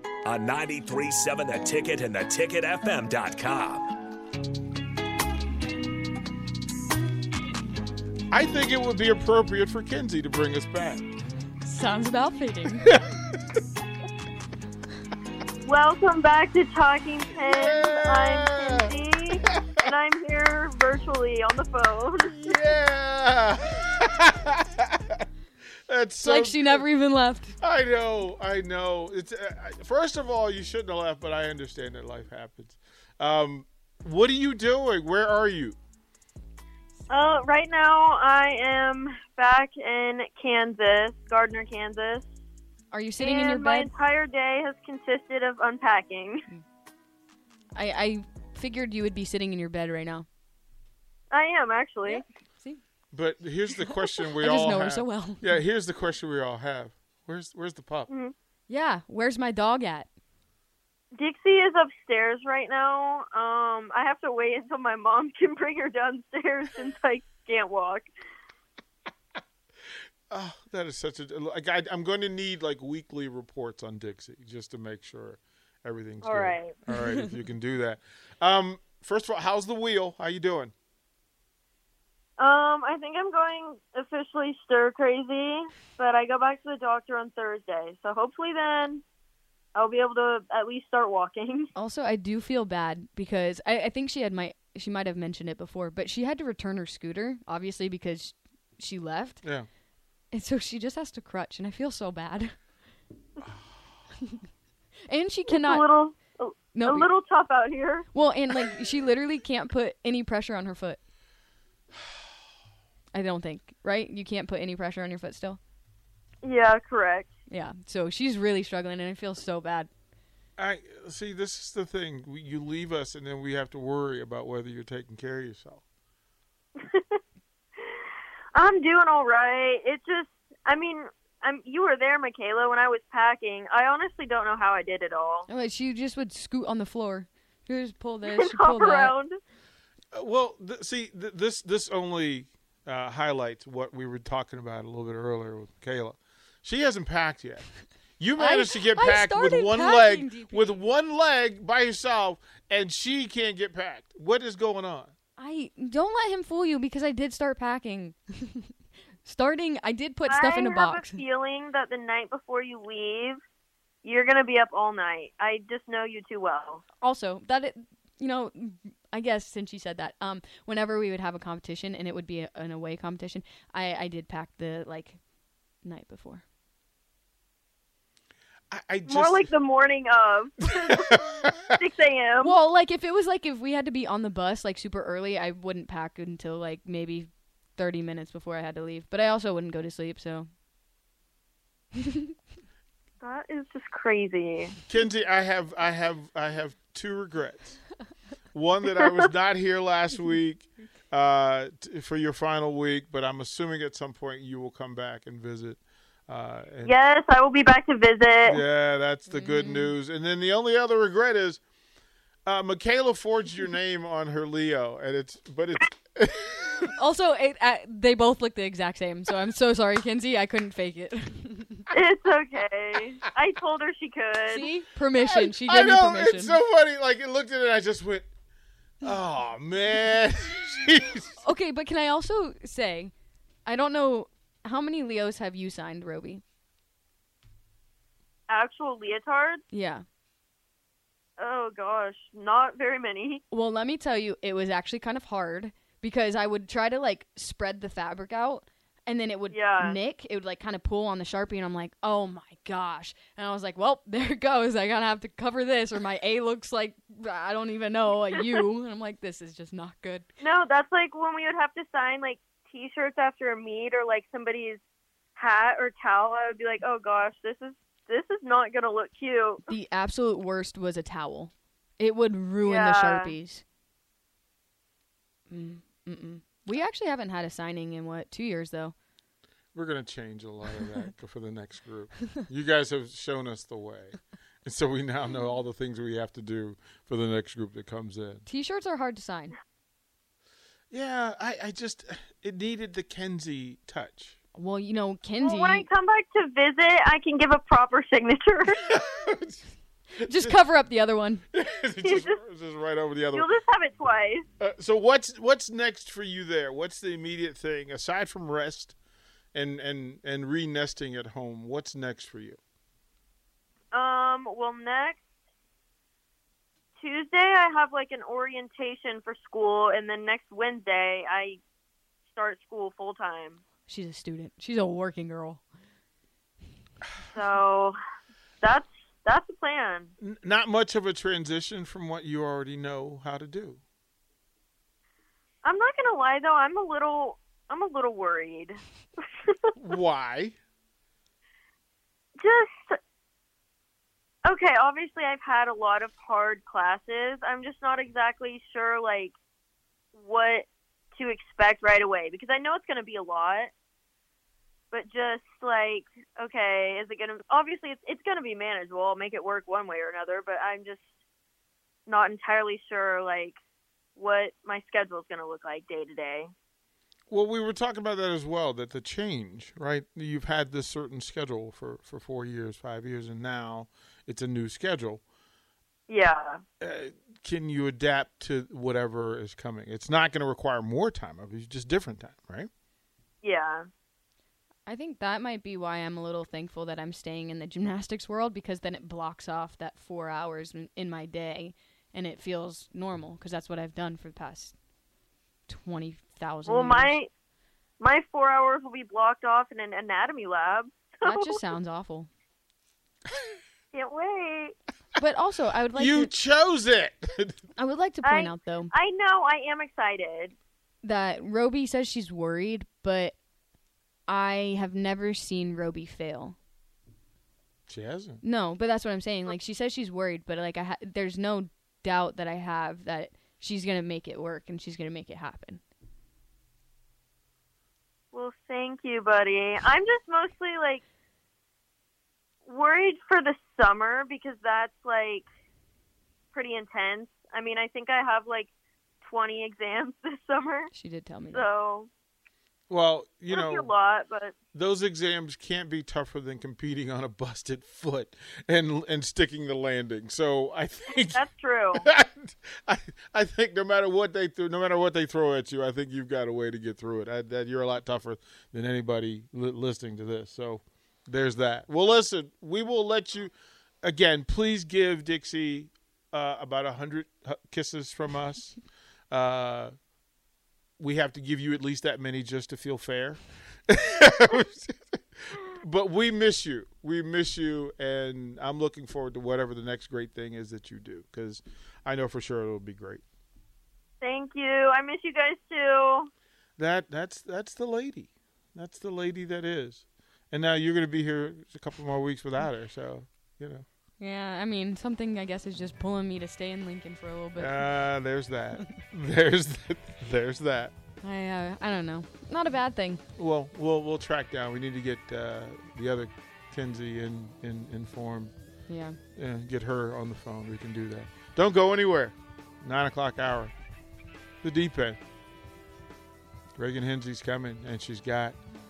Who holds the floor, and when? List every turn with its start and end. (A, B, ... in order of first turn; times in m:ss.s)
0:00.2-0:03.9 A
0:08.3-0:11.0 B
0:11.6-0:12.9 C
0:15.6-0:22.6 D
0:17.5-0:18.9 B
0:19.4-0:19.8 B
0:22.3-0:25.2 B
0:25.9-0:26.8 B
0:26.2-0:27.6 C
0:27.6-0:35.8 B
0:37.1-0:42.3 D
0:42.9-0:43.9 C
0:43.2-0:46.4 D
0:47.7-0:50.3 C
0:51.3-0:52.2 D
0:52.0-0:52.8 C
0:53.1-0:58.1 B
0:53.9-0:55.6 C
0:58.1-0:58.3 D
0:58.7-1:00.1 C
1:01.1-1:08.1 D
1:10.3-1:20.7 B
1:16.2-1:16.8 D
1:16.9-1:17.2 C
1:22.4-1:29.0 D
1:29.7-1:31.7 D
1:31.7-1:39.5 C
1:40.3-1:42.5 C
1:45.1-1:45.8 C
1:45.5-1:48.1 D
1:46.7-1:47.1 C
1:48.1-1:51.0 C
1:53.1-1:55.6 C
1:56.4-1:57.3 D
1:57.5-1:59.9 C
2:00.6-2:05.8 B
2:06.8-2:07.2 D
2:08.5-2:15.5 D
2:15.5-2:19.1 C
2:18.2-2:19.4 D
2:20.1-2:35.1 B
2:28.4-2:30.8 C
2:35.4-2:41.2 C
2:40.3-2:43.4 D
2:44.0-2:46.8 D
2:47.0-2:55.2 C
2:55.8-2:56.4 C
2:58.7-2:59.5 B
2:59.1-3:02.6 D
3:01.1-3:01.5 B
3:02.4-3:10.5 C
3:13.2-3:14.8 D
3:14.9-3:17.8 B
3:18.5-3:26.9 B
3:19.0-3:19.2 D
3:26.8-3:28.6 D
3:28.4-3:31.6 B
3:29.3-3:29.9 C
3:32.4-3:36.9 B
3:36.9-3:41.9 C
3:41.9-3:44.7 D
3:44.5-3:46.6 C
3:45.2-3:48.3 B
3:49.0-3:51.4 B
3:51.4-3:53.1 C
3:53.6-3:56.4 C
3:58.5-3:59.6 D
3:59.7-4:00.0 C
4:01.4-4:03.4 D
4:03.5-4:20.3 C
4:09.5-4:10.0 D
4:20.4-4:24.8 D
4:25.4-4:29.6 D
4:29.7-4:33.6 C
4:32.6-4:33.3 D
4:35.5-4:38.9 C
4:39.7-4:48.4 B
4:48.4-4:49.5 C
4:50.9-4:54.4 B
4:54.5-4:55.9 C
4:55.4-4:58.8 D
4:58.8-4:59.6 B
5:00.2-5:01.4 C
5:00.2-5:00.6 B
5:01.5-5:03.5 B
5:02.0-5:02.4 D
5:03.3-5:04.4 D
5:04.6-5:09.0 B
5:09.5-5:12.6 B
5:13.9-5:15.2 D
5:17.0-5:21.6 D
5:22.2-5:23.6 D
5:23.9-5:25.6 C
5:27.3-5:28.0 D
5:28.6-5:30.1 D
5:30.2-5:33.8 B
5:35.6-5:39.6 D
5:39.8-5:40.6 B
5:42.4-5:43.0 D
5:44.4-5:49.3 D
5:50.1-5:53.7 D
5:54.9-6:01.1 D
6:02.0-6:03.6 D
6:04.2-6:06.5 D
6:07.3-6:15.2 B
6:16.1-6:16.6 D
6:16.8-6:22.7 B
6:23.4-6:23.8 D
6:24.8-6:34.7 C
6:35.7-6:37.2 C
6:36.7-6:37.3 D
6:38.0-6:41.6 D
6:41.2-6:42.3 C
6:43.9-6:44.7 D
6:45.2-6:46.3 C
6:45.9-6:47.6 B
6:47.8-6:48.9 C
6:48.2-6:50.5 D
6:51.0-6:53.4 C
6:54.3-6:56.6 C
6:57.9-6:58.4 B
6:58.4-7:05.8 C
7:08.3-7:11.0 D
7:12.6-7:15.4 D
7:16.5-7:18.7 D
7:19.2-7:20.9 D
7:20.9-7:21.6 C
7:21.5-7:22.1 D
7:22.9-7:23.9 B
7:23.5-7:24.5 D
7:24.7-7:31.4 B
7:31.3-7:32.0 D
7:31.9-7:48.8 B
7:49.3-7:49.9 B
7:51.0-7:55.0 B
7:55.5-8:03.2 B
8:04.2-8:06.3 D
8:06.8-8:13.8 B
8:14.2-8:17.9 C
8:17.6-8:20.9 B
8:21.2-8:23.2 C
8:23.3-8:28.5 B
8:28.9-8:29.2 C
8:29.3-8:33.7 B
8:34.6-8:35.2 B
8:36.8-8:38.6 B